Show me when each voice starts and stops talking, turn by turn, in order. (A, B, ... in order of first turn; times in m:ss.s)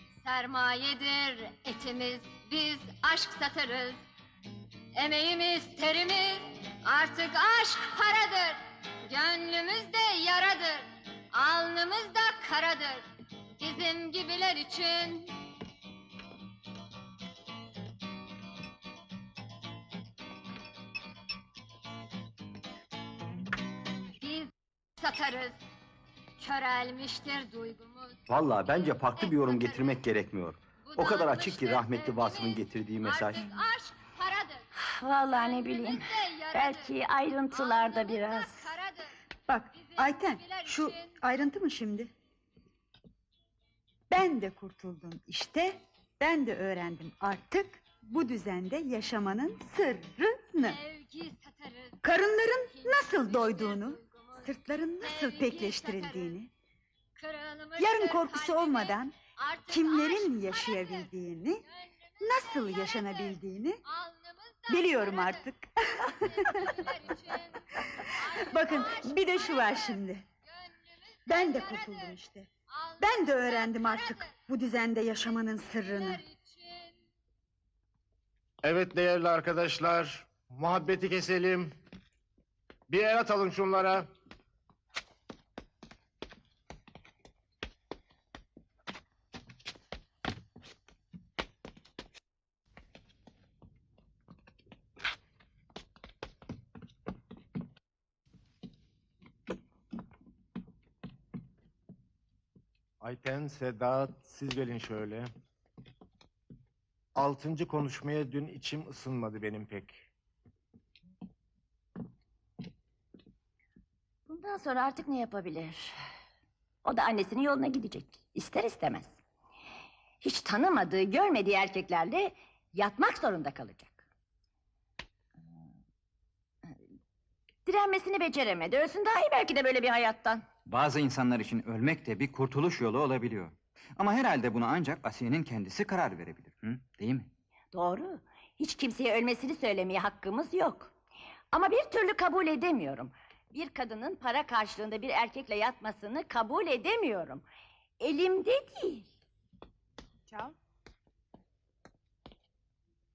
0:00.2-0:04.0 A
0:04.9-0:13.0 A
0:13.6-0:15.4 A
0:24.2-0:25.6 A
0:26.4-0:30.1 A
0:28.3-0:33.5 B
0:30.8-0:34.6 A
0:34.8-0:38.7 C
0:35.3-0:37.0 A
0:37.5-0:39.1 A
0:39.5-0:42.1 D
0:39.7-0:41.2 A
0:44.1-0:50.8 D
0:50.6-0:52.0 A
0:52.0-0:56.5 D
0:52.7-0:56.4 A
0:57.2-1:01.1 A
0:57.8-0:59.1 D
0:59.7-1:01.6 D
1:01.8-1:05.5 A
1:02.2-1:03.8 D
1:04.7-1:06.9 D
1:06.2-1:10.0 A
1:07.8-1:10.2 D
1:10.6-1:12.2 A
1:11.3-1:16.2 D
1:12.7-1:14.3 A
1:15.5-1:16.9 A
1:18.6-1:21.7 E
1:22.9-1:24.1 E
1:43.0-1:45.3 E
1:47.1-1:50.0 E
1:54.3-1:55.9 C
1:56.8-1:59.1 C
2:00.2-2:04.0 C
2:07.6-2:10.4 C
2:10.7-2:17.3 F
2:17.7-2:20.9 C
2:21.5-2:27.4 C
2:28.0-2:29.1 C